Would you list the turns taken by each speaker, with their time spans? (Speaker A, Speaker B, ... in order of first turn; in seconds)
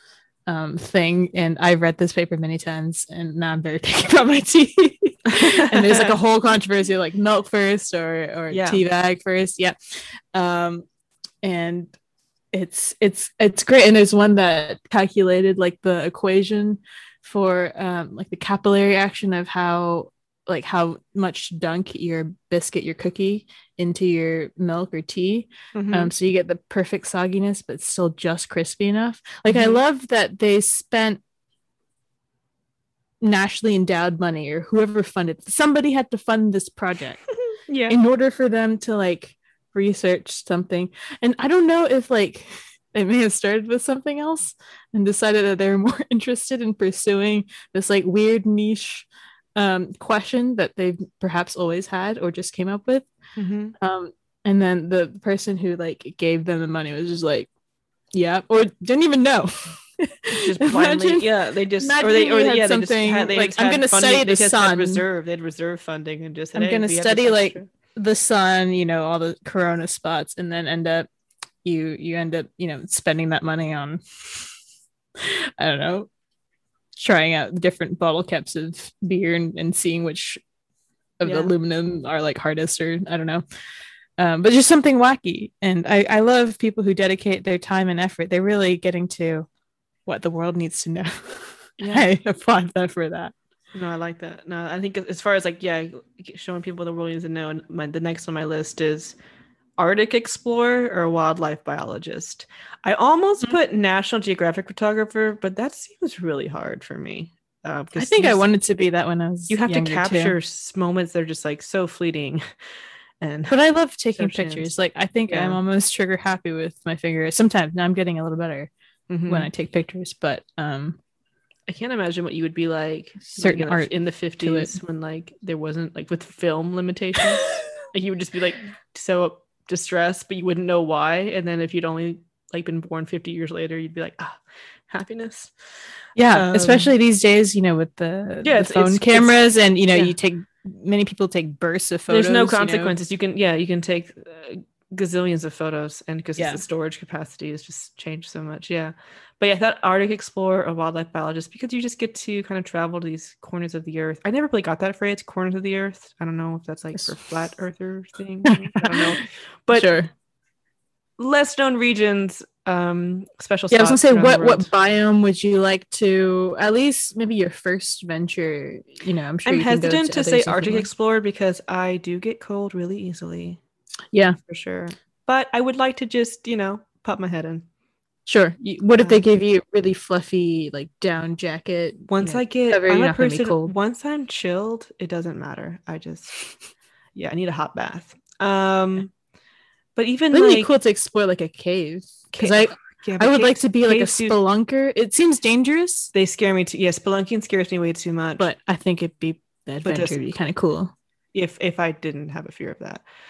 Speaker A: 0.5-10.8, 11.4-11.9, 12.5-31.2, 33.2-37.3, 37.9-53.0, 53.8-57.5, 58.1-61.3, 61.8-65.0, 66.5-71.1, 71.6-74.5, 75.2-76.1, 77.0-80.4, 81.2-83.4, 84.2-89.5, 90.0-93.3, 108.0-110.3, 113.5-118.7, 119.3-121.0, 123.4-124.7, 136.2-142.9, 158.5-159.2, 159.7-160.1, 163.7-170.9, 178.2-183.7, 190.3-196.1, 198.4-200.9
Speaker B: 5.3-6.1, 8.5-8.8, 25.7-26.1, 29.5-29.8, 37.5-38.0, 53.4-53.7, 60.3-67.7, 81.2-81.5, 91.8-92.1, 93.7-99.2, 99.8-108.4, 109.5-112.4, 113.2-113.5, 114.2-114.7, 115.3-115.6, 119.1-119.5, 121.7-135.5, 136.3-136.9, 138.4-139.4, 142.1-159.9, 161.2-164.7, 169.4-173.6, 174.5-177.6, 182.1-186.6, 187.1-189.1, 189.9-190.7, 192.3-194.4, 196.1-198.5, 199.8-200.2, 201.3-203.0